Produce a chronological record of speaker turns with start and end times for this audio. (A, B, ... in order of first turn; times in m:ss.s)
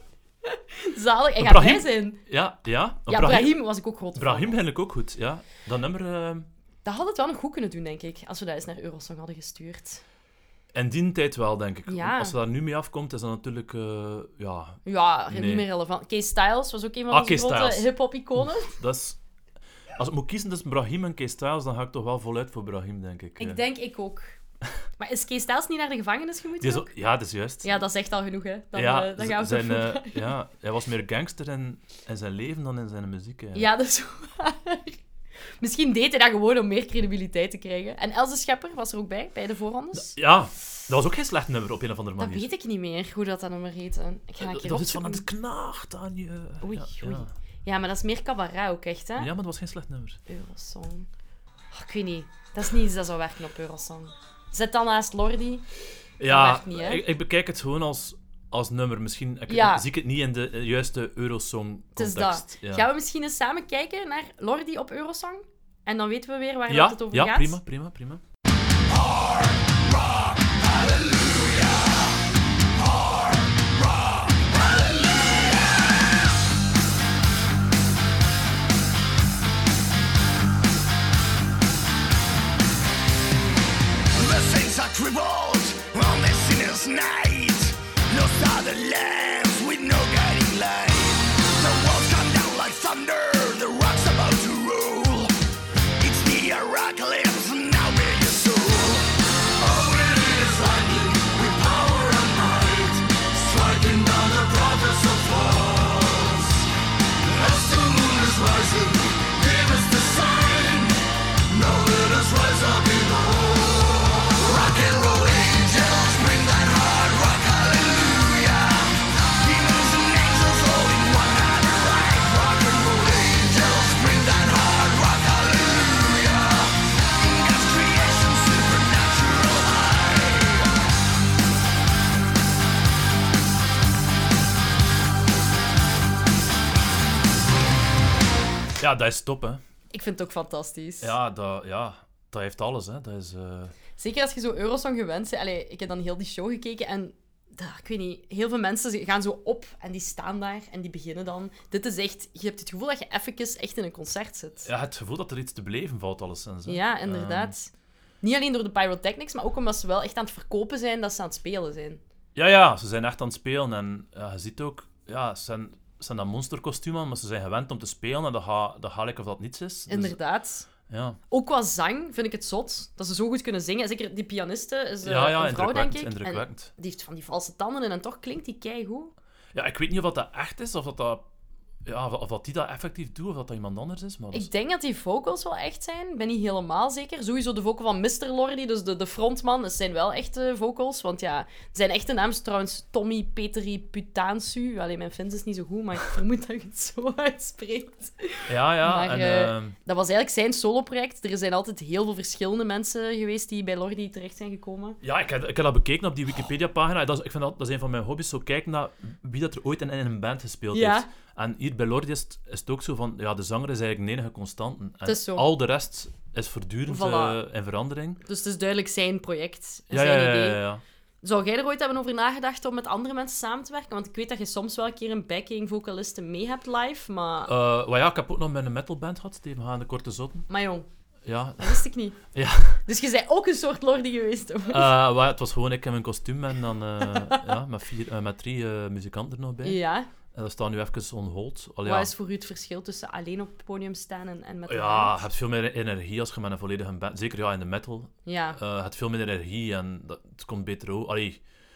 0:00.4-0:02.2 A
0:01.4-0:03.6 B
0:03.1-0:04.6 A
0:04.1-0:06.5 B
0:06.8-0:10.0 A
0:10.7-0:15.6 B
0:11.9-0:12.4 A
0:14.8-0:18.8 A
0:17.1-0:19.2 B
0:19.9-0:23.6 B
0:23.4-0:24.4 A
0:25.0-0:26.9 A
0:26.6-0:27.7 B
0:27.6-0:30.3 A
0:28.7-0:33.7 B
0:33.5-0:35.0 A
0:35.6-0:40.2 A
0:39.9-0:42.5 B
0:42.2-0:45.2 A
0:44.4-0:47.3 B
0:46.6-0:49.3 A
0:49.2-0:50.2 B
0:50.3-0:51.1 A
0:51.7-0:55.6 A
0:56.2-1:02.9 B
0:56.3-0:57.0 A
0:59.5-0:59.8 A
1:02.0-1:07.6 A
1:06.7-1:08.2 B
1:08.9-1:09.7 C
1:10.6-1:11.7 C
1:24.1-1:35.4 C
1:36.0-1:46.6 C
1:47.2-2:10.7 C
2:18.8-2:19.6 B
2:19.9-2:21.1 A
2:21.0-2:23.7 B
2:24.0-2:34.7 A
2:34.6-2:37.5 B
2:36.6-2:42.0 A
2:42.3-2:50.2 B
2:49.9-2:50.7 A
2:50.9-2:51.2 B
2:51.3-2:59.1 A
2:55.0-2:56.7 B
2:59.5-3:01.2 B
3:01.8-3:04.5 B
3:04.3-3:25.0 A
3:18.5-3:19.8 B
3:25.0-3:38.2 B
3:30.7-3:31.1 A
3:35.0-3:35.5 A
3:36.9-3:37.4 A
3:38.2-3:40.6 A
3:39.9-3:40.8 B
3:41.2-3:47.5 A
3:47.4-3:50.5 B
3:50.5-3:50.9 A
3:51.2-3:52.8 B
3:51.6-3:52.2 A
3:52.8-3:54.9 A
3:54.7-3:59.8 B
3:57.1-3:57.4 A
3:59.6-4:00.1 A
4:00.3-4:02.1 B
4:01.8-4:05.2 A
4:04.7-4:11.4 B
4:08.2-4:08.6 A